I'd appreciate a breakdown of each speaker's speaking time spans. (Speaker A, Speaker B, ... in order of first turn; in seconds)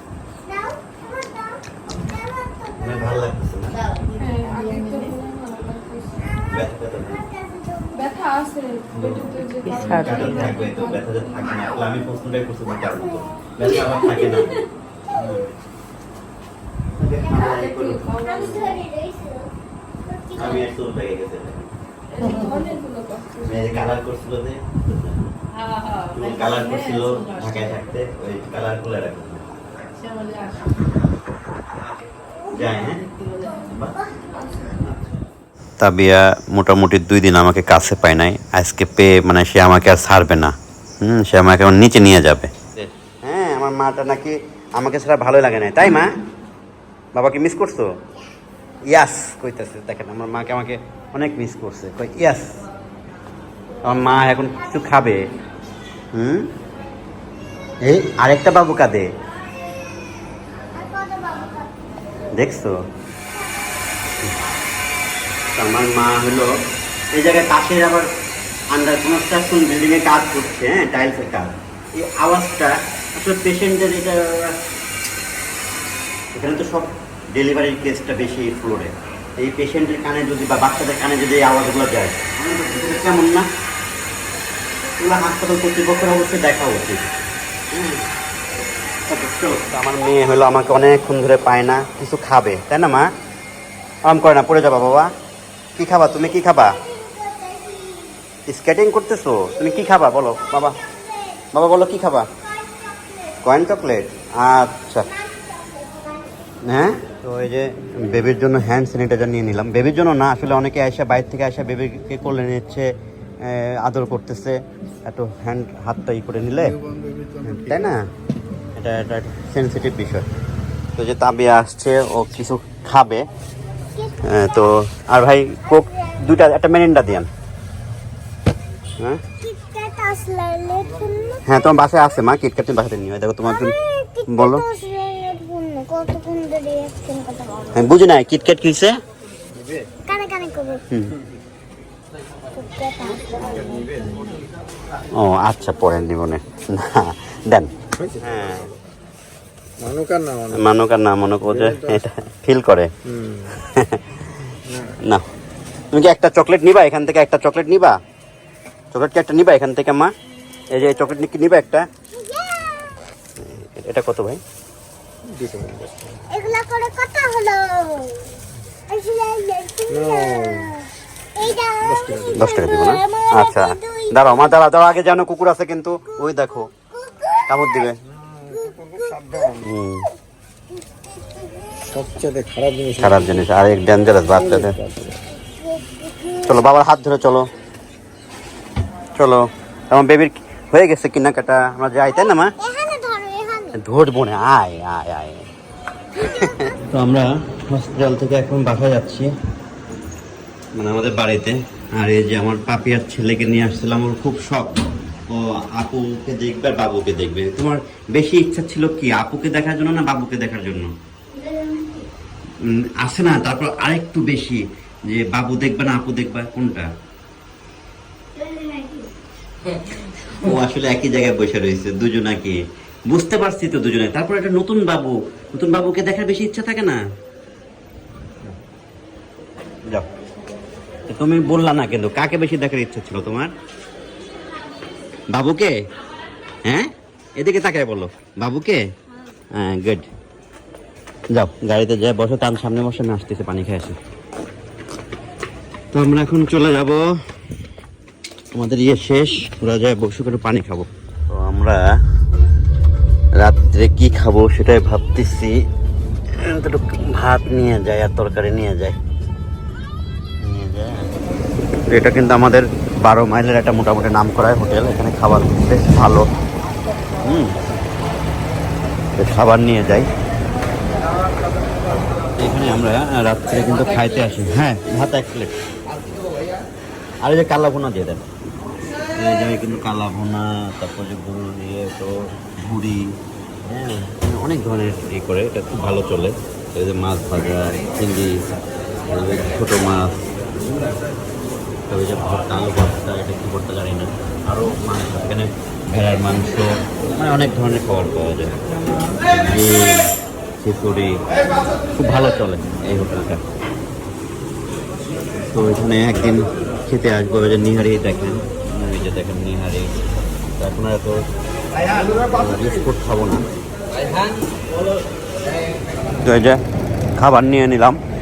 Speaker A: 0.5-1.6, 7.4-8.1, 18.2-19.5, 20.1-20.5, 60.8-61.7, 96.8-98.2, 100.8-101.5, 102.5-103.4, 105.1-106.5, 129.4-131.6, 133.8-137.7, 140.1-140.9, 142.5-143.9, 162.1-163.0, 166.3-168.3, 168.9-174.1, 177.0-177.3, 181.3-182.0, 185.5-186.4, 192.6-193.8, 211.4-212.0, 218.4-219.1
Speaker B: 1.9-2.2, 2.8-3.8, 6.5-7.3, 8.9-14.5, 15.1-15.5, 17.0-18.8, 20.4-21.7, 23.4-25.3, 26.1-29.5, 32.5-33.0, 33.6-35.2, 35.8-46.1, 47.1-47.9, 48.9-52.5, 53.9-55.2, 56.1-56.5, 57.8-59.1, 62.3-62.8, 65.5-66.5, 67.1-68.1, 68.7-74.6, 76.3-83.5, 85.0-87.1, 87.7-88.0, 89.1-93.1, 94.1-95.1, 95.8-96.8, 98.5-100.8, 101.5-102.3, 103.4-105.1, 106.6-112.9, 113.4-116.8, 117.4-118.0, 118.8-120.2, 121.0-123.3, 124.2-127.3, 131.4-133.8, 134.3-134.7, 137.7-138.9, 145.2-148.7, 150.5-152.9, 153.5-155.2, 155.9-158.0, 158.9-160.1, 160.7-161.9, 163.4-164.4, 172.2-176.7, 177.5-178.0, 179.5-180.1, 183.0-184.8, 186.4-187.5, 189.2-192.5, 193.7-195.5, 196.2-199.3, 200.8-210.9, 212.6-216.9, 220.3-227.0, 231.1-233.5, 235.3-235.8, 236.7-238.8, 239.5-240.1, 241.3-244.0, 245.9-247.0, 248.5-251.8, 253.4-255.6, 256.3-259.0, 260.4-261.1, 261.9-266.3, 267.2-267.6, 269.2-270.1, 272.4-275.6, 277.2-278.3, 279.1-288.5, 289.1-290.3, 291.9-298.6, 299.3-300.1, 300.6-301.2, 302.0-303.4, 305.5-311.2, 312.0-313.4, 316.2-316.6, 317.2-318.0
Speaker C: 3.8-5.2, 25.5-27.7, 29.9-30.9, 32.6-33.7
Speaker D: 4.2-6.2, 8.0-11.5, 17.5-18.6, 22.2-23.6
Speaker E: 149.8-150.4, 165.4-165.9, 170.1-170.6, 182.1-182.9